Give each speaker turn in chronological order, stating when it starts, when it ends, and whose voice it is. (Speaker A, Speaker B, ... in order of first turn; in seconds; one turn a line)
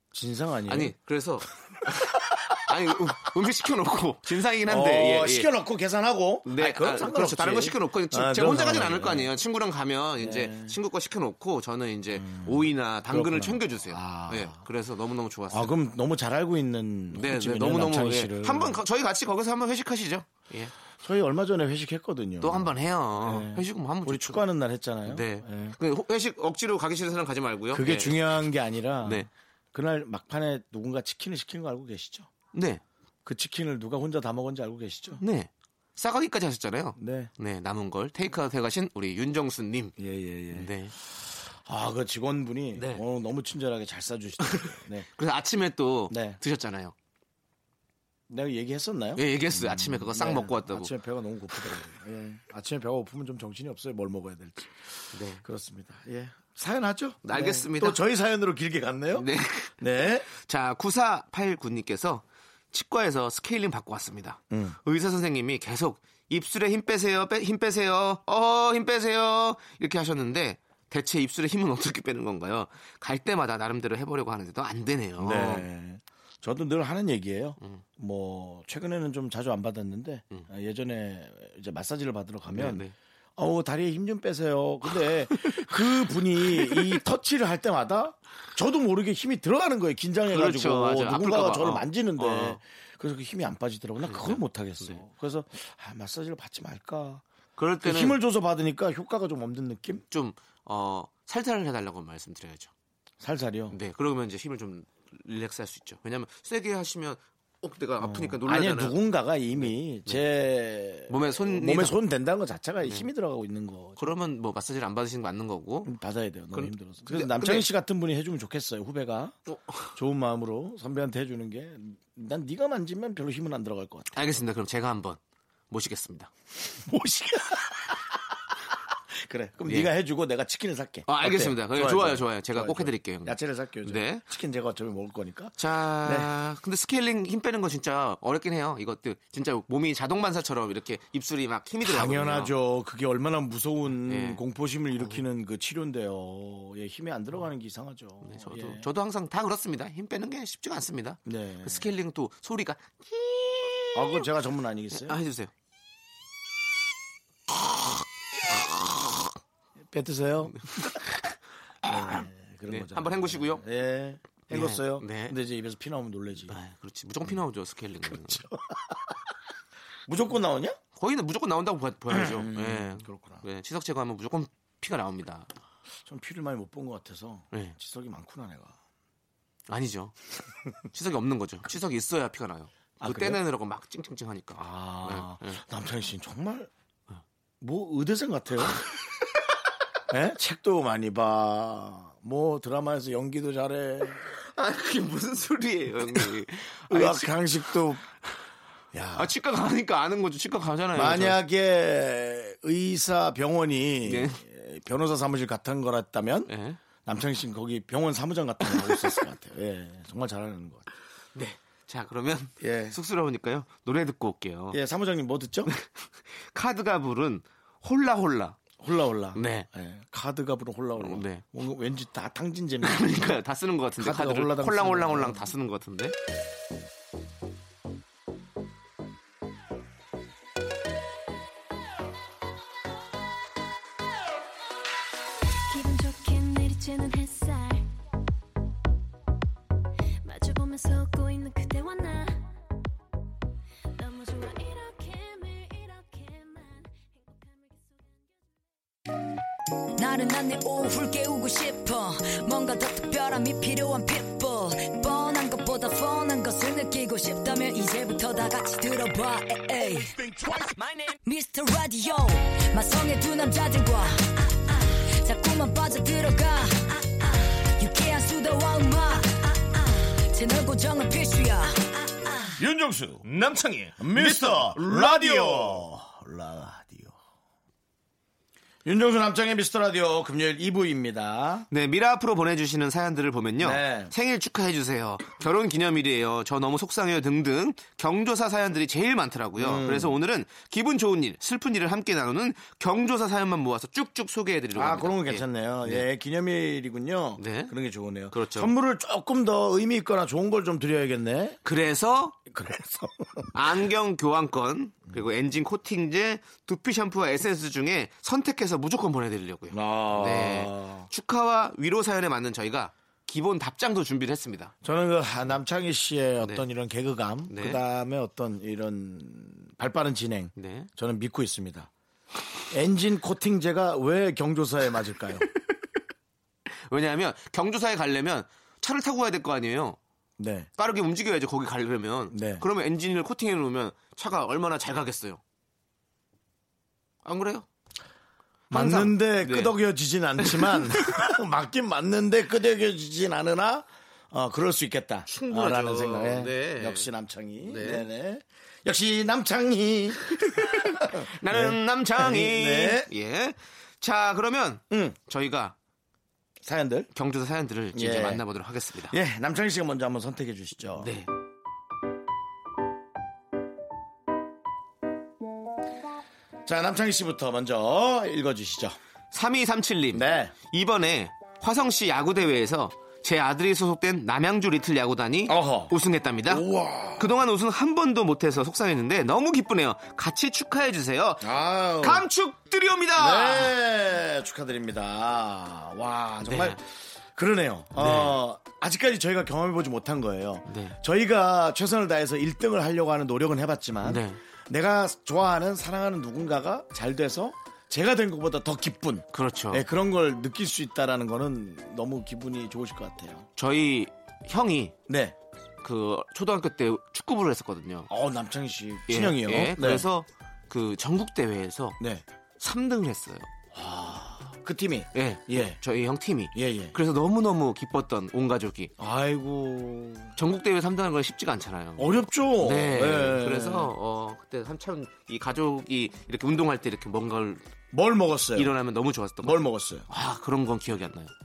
Speaker A: 0.1-0.9
Speaker B: 0.7-5.5
Speaker A: 1.9-2.4
Speaker A: 4.7-9.3
Speaker B: 6.5-15.7
Speaker A: 10.2-10.8
Speaker A: 12.2-14.6
Speaker A: 15.5-18.8
Speaker B: 17.1-20.7
Speaker A: 21.0-25.8
Speaker B: 22.4-24.4
Speaker B: 25.1-28.3
Speaker A: 27.7-32.3
Speaker B: 29.0-29.3
Speaker B: 32.5-32.8
Speaker A: 33.2-35.2
Speaker B: 35.2-40.0
Speaker A: 37.0-37.3
Speaker A: 40.0-40.7
Speaker B: 40.5-41.0
Speaker A: 41.2-45.1
Speaker B: 42.8-43.0
Speaker B: 44.4-46.9
Speaker A: 46.1-46.4
Speaker A: 48.3-59.3
Speaker B: 49.2-50.9
Speaker B: 55.1-55.4
Speaker B: 57.2-58.0
Speaker B: 59.1-59.8
Speaker A: 59.8-60.3
Speaker B: 60.3-75.7
Speaker A: 64.5-64.8
Speaker A: 75.2-82.8
Speaker B: 82.5-82.9
Speaker A: 83.4-97.2
Speaker B: 85.4-87.0
Speaker B: 90.3-92.6
Speaker B: 94.0-95.0
Speaker B: 97.6-98.2
Speaker A: 97.8-100.0
Speaker B: 100.1-102.7
Speaker A: 103.2-103.8
Speaker B: 103.7-109.0
Speaker A: 108.0-114.1
Speaker B: 109.6-110.2
Speaker B: 111.1-112.0
Speaker B: 112.8-113.1
Speaker B: 114.0-115.9
Speaker A: 115.8-119.4
Speaker B: 116.5-117.7
Speaker B: 119.5-119.9
Speaker A: 120.0-124.1
Speaker B: 124.1-126.3
Speaker A: 126.7-128.2
Speaker A: 129.1-136.3
Speaker B: 129.7-129.9
Speaker B: 131.1-134.2
Speaker B: 135.6-142.5
Speaker A: 141.8-148.9
Speaker B: 144.0-144.4
Speaker B: 145.0-145.2
Speaker B: 148.2-154.3
Speaker A: 151.3-151.9
Speaker A: 153.9-155.2
Speaker B: 154.9-155.5
Speaker B: 158.5-159.3
Speaker A: 159.9-161.0
Speaker B: 160.8-161.3
Speaker A: 161.8-166.6
Speaker B: 161.9-163.6
Speaker B: 164.5-165.4
Speaker B: 166.5-168.4
Speaker A: 168.0-169.2
Speaker A: 170.1-170.8
Speaker B: 171.0-175.5
Speaker A: 172.1-173.4
Speaker A: 176.1-178.8
Speaker B: 179.7-180.2
Speaker B: 180.9-185.6
Speaker A: 183.0-183.4
Speaker A: 184.6-186.7
Speaker A: 187.6-188.8
Speaker A: 190.1-194.3
Speaker B: 194.5-197.4
Speaker A: 196.9-198.1
Speaker A: 198.9-199.3
Speaker B: 199.2-201.4
Speaker A: 200.9-206.5
Speaker B: 204.1-204.4
Speaker B: 206.5-206.8
Speaker A: 207.1-210.9
Speaker B: 211.3-214.8
Speaker A: 212.6-213.0
Speaker A: 214.7-215.7
Speaker B: 215.7-218.6
Speaker A: 218.8-223.3
Speaker B: 219.3-219.7
Speaker B: 221.0-221.4
Speaker B: 222.8-226.2
Speaker A: 224.0-225.5
Speaker C: 235.7-237.8
Speaker C: 240.2-242.4
Speaker C: 244.0-248.2
Speaker D: 250.0-260.1
Speaker D: 261.3-264.3
Speaker D: 265.2-266.9
Speaker D: 267.8-269.4
Speaker D: 270.1-271.7
Speaker A: 272.6-273.2
Speaker B: 273.2-275.9
Speaker A: 274.0-277.1
Speaker A: 278.9-281.7
Speaker B: 281.7-296.1
Speaker A: 283.6-284.1
Speaker A: 289.6-290.2
Speaker A: 294.7-301.6
Speaker B: 297.4-297.7
Speaker B: 298.3-298.7
Speaker B: 301.6-302.4
Speaker A: 302.5-303.6
Speaker B: 303.5-314.7
Speaker A: 309.7-311.1
Speaker A: 314.8-321.9
Speaker B: 317.5-317.8
Speaker B: 320.6-320.9
Speaker A: 322.7-325.5
Speaker B: 326.9-330.0
Speaker A: 330.4-330.7
Speaker B: 330.8-335.4
Speaker A: 332.3-332.6
Speaker B: 337.2-337.7
Speaker A: 338.7-353.1
Speaker B: 338.7-339.7
Speaker B: 340.4-341.2
Speaker B: 345.3-347.1
Speaker B: 347.6-348.1
Speaker B: 350.4-355.8
Speaker A: 354.9-355.2
Speaker A: 356.6-357.1
Speaker B: 357.1-359.2
Speaker A: 357.9-358.4
Speaker A: 359.1-361.1
Speaker B: 361.0-361.3
Speaker A: 366.7-369.0
Speaker B: 369.3-383.8
Speaker A: 370.1-370.5
Speaker A: 375.5-375.9
Speaker A: 376.5-377.3
Speaker A: 381.4-382.3
Speaker A: 383.2-403.5
Speaker B: 386.4-386.8
Speaker B: 388.0-388.4
Speaker B: 390.7-391.0
Speaker B: 394.0-394.4
Speaker B: 399.3-399.8
Speaker B: 403.6-404.9
Speaker A: 405.1-405.4
Speaker B: 405.8-408.1
Speaker A: 408.1-410.1
Speaker B: 409.1-412.0
Speaker B: 412.6-413.5
Speaker A: 413.7-415.8
Speaker B: 415.1-418.9
Speaker A: 416.5-416.9
Speaker A: 419.0-420.3
Speaker B: 420.4-427.6
Speaker A: 422.0-423.9
Speaker A: 427.9-428.7
Speaker B: 428.6-431.3
Speaker A: 429.4-430.1